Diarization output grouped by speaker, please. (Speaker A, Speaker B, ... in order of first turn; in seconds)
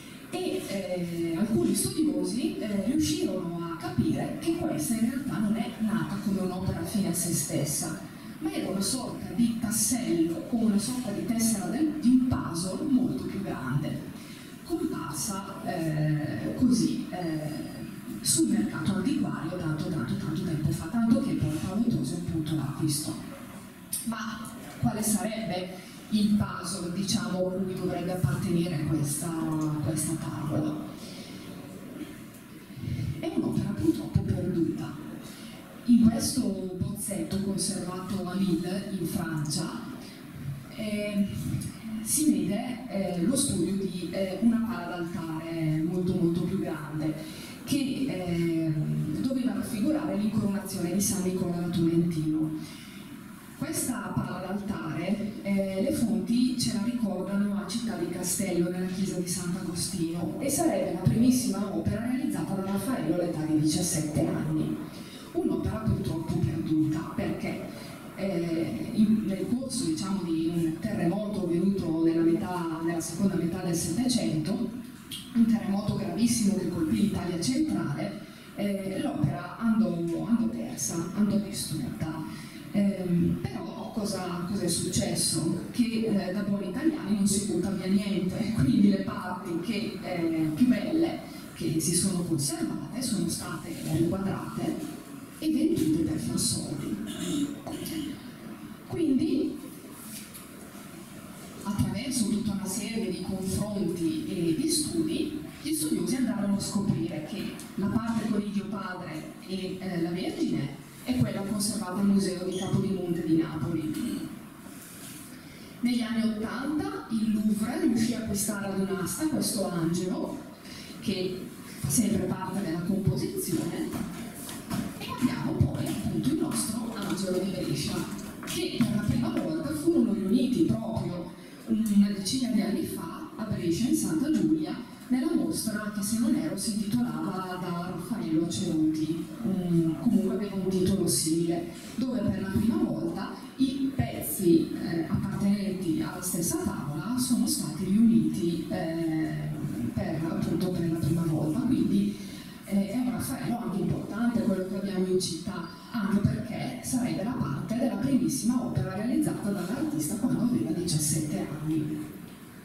Speaker A: 0.3-14.0, 14.6-23.2, 24.1-30.9, 33.2-35.0, 35.9-39.8, 40.7-52.5, 53.5-64.8, 65.3-74.7, 75.3-94.8, 95.4-98.0, 98.9-99.5, 101.6-114.3, 115.8-120.4, 121.0-124.0, 125.0-162.0